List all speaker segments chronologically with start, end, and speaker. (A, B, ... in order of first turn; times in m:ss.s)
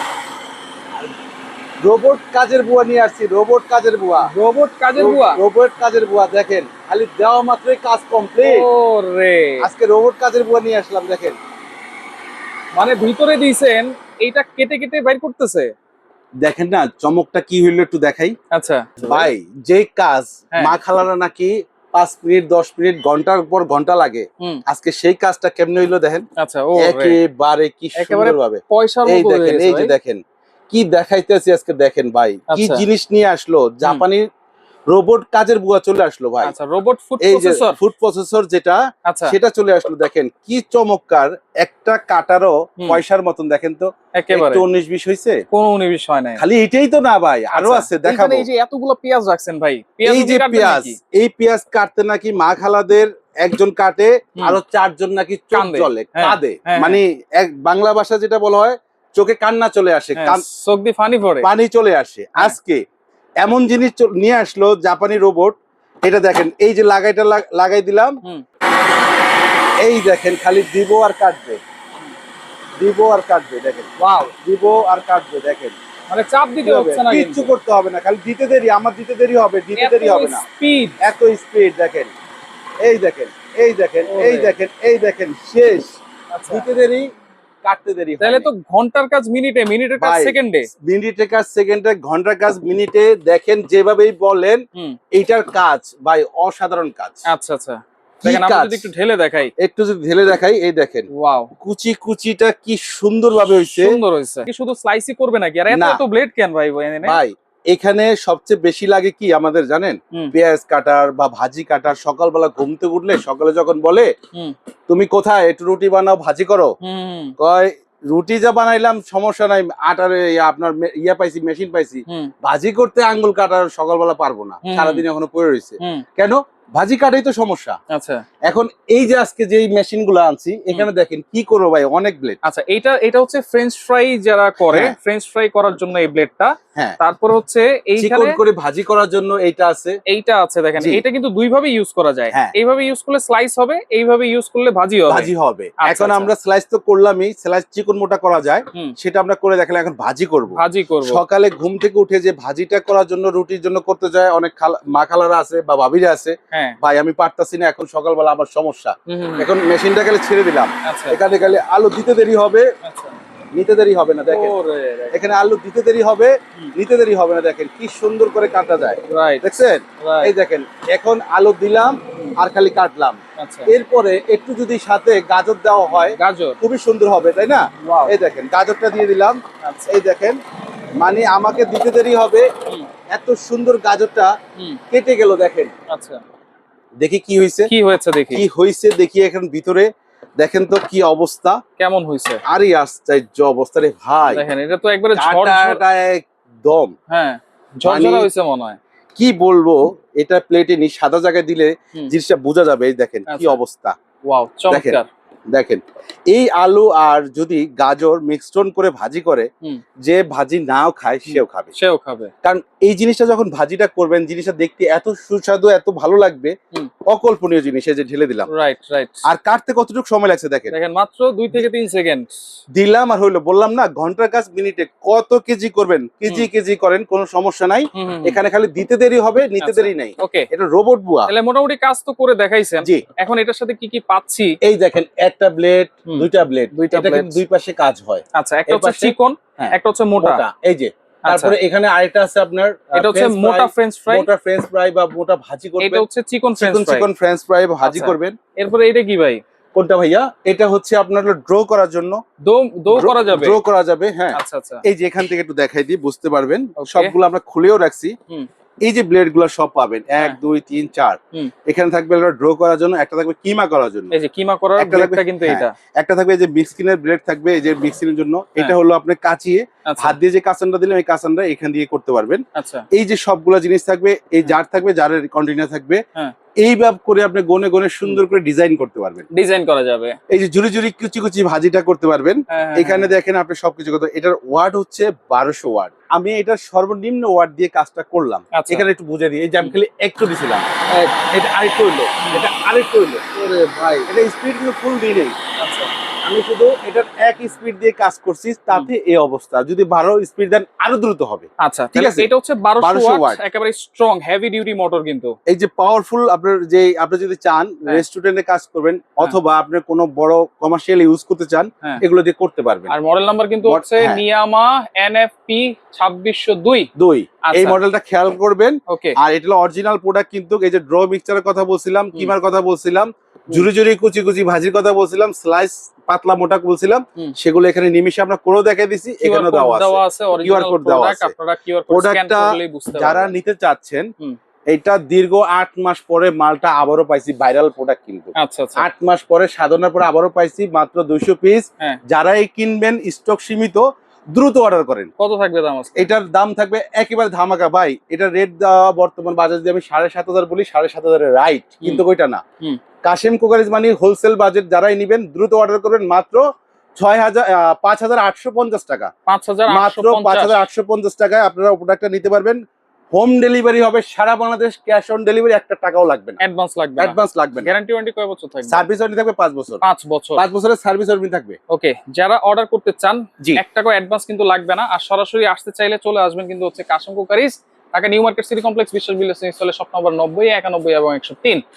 0:01.8-0:04.3 A
0:04.2-0:05.4 B
0:05.0-0:08.6 A
0:08.4-0:09.7 B
0:09.6-0:11.4 A
0:12.8-0:15.7 B
0:16.4-0:18.3 A
0:18.5-0:19.3 B
0:19.0-0:26.2 A
0:26.4-0:27.2 B
0:26.8-0:34.3 A
0:28.0-0:29.9 B
0:32.5-0:32.8 B
0:34.9-0:36.5 A
0:36.4-0:37.8 B
0:37.2-0:45.4 A
0:39.0-0:39.4 B
0:44.1-0:44.6 B
0:45.5-0:46.4 B
0:46.4-0:48.5 A
0:47.5-0:51.0 B
0:50.0-1:00.4 A
0:55.5-0:57.0 B
1:00.2-1:01.5 B
1:01.4-1:02.8 A
1:03.4-1:08.2 A
1:09.8-1:11.6 A
1:12.8-1:15.8 A
1:14.0-1:14.3 B
1:16.1-1:17.5 B
1:16.6-1:20.4 A
1:19.8-1:21.0 B
1:21.0-1:22.1 A
1:22.8-1:27.1 A
1:24.1-1:24.5 B
1:26.3-1:26.6 B
1:27.6-1:28.5 A
1:28.2-1:30.7 B
1:30.0-1:37.2 A
1:37.2-1:39.5 B
1:38.2-1:38.9 A
1:39.6-1:41.1 A
1:41.1-1:41.5 B
1:41.6-1:44.0 A
1:43.6-1:47.2 B
1:45.7-1:46.0 A
1:47.0-1:54.1 A
1:54.9-1:56.7 A
1:56.8-1:57.3 B
1:57.4-2:07.8 A
2:02.1-2:02.3 B
2:04.6-2:05.0 B
2:05.8-2:06.0 B
2:07.9-2:08.2 B
2:08.4-2:12.4 A
2:12.4-2:18.4 B
2:14.6-2:15.0 A
2:18.0-2:20.0 A
2:20.1-2:25.3 B
2:20.8-2:21.0 A
2:25.1-2:42.7 A
2:25.8-2:26.3 B
2:30.6-2:31.2 B
2:36.5-2:36.8 B
2:39.1-2:39.5 B
2:40.8-2:41.2 B
2:42.8-2:43.2 B
2:43.5-2:44.5 A
2:44.3-2:45.2 B
2:45.1-3:00.4 A
2:49.1-2:49.4 B
2:50.0-2:50.3 B
2:53.4-2:53.7 B
2:56.0-2:56.6 B
2:57.8-2:58.1 B
2:59.6-2:59.9 B
3:01.0-3:02.5 A
3:03.1-3:04.3 A
3:04.9-3:05.7 A
3:05.9-3:06.2 B
3:07.0-3:07.7 A
3:07.7-3:08.4 B
3:08.3-3:11.6 A
3:11.8-3:12.4 B
3:12.5-3:14.4 A
3:14.3-3:15.8 B
3:15.2-3:16.9 A
3:17.1-3:18.8 B
3:17.8-3:18.3 A
3:19.2-3:24.0 A
3:23.3-3:23.6 B
3:24.2-3:25.1 B
3:24.7-3:25.0 A
3:25.5-3:29.5 A
3:30.0-3:31.7 A
3:31.3-3:32.3 B
3:32.4-3:36.5 A
3:37.1-3:38.5 A
3:38.5-3:39.2 B
3:39.2-3:40.7 A
3:40.7-3:42.3 B
3:42.7-3:51.3 A
3:47.9-3:48.4 B
3:49.6-3:50.5 B
3:51.3-3:54.6 B
3:54.6-4:06.0 A
3:56.1-3:57.4 B
3:58.3-4:00.4 B
4:01.2-4:01.6 B
4:02.9-4:04.3 B
4:05.8-4:07.1 B
4:06.6-4:08.4 A
4:07.8-4:09.4 B
4:09.7-4:12.2 A
4:12.4-4:13.6 B
4:12.9-4:18.1 A
4:14.3-4:14.8 B
4:16.8-4:17.1 B
4:18.8-4:24.1 A
4:24.1-4:25.7 B
4:24.8-4:36.0 A
4:29.8-4:30.1 B
4:32.5-4:32.8 B
4:36.6-4:39.2 A
4:39.3-4:40.2 B
4:40.3-4:55.3 A
4:42.5-4:43.1 B
4:48.5-4:48.8 B
4:52.2-4:52.4 B
4:55.6-4:55.9 B
4:56.2-5:03.4 A
5:01.6-5:05.4 B
5:05.5-5:12.9 A
5:12.9-5:16.9 B
5:13.6-5:14.2 A
5:17.0-5:31.3 A
5:17.4-5:17.8 B
5:18.9-5:19.2 B
5:29.2-5:33.3 B
5:31.9-5:34.1 A
5:34.7-5:45.1 A
5:38.3-5:38.8 B
5:45.2-5:46.1 B
5:46.0-5:52.4 A
5:53.0-5:56.4 A
5:57.0-5:59.1 A
5:59.3-6:00.6 B
5:59.7-6:02.6 A
6:03.1-6:06.4 A
6:06.4-6:08.8 B
6:07.0-6:07.7 A
6:08.6-6:09.8 A
6:09.8-6:10.4 B
6:10.4-6:11.6 A
6:11.7-6:21.6 B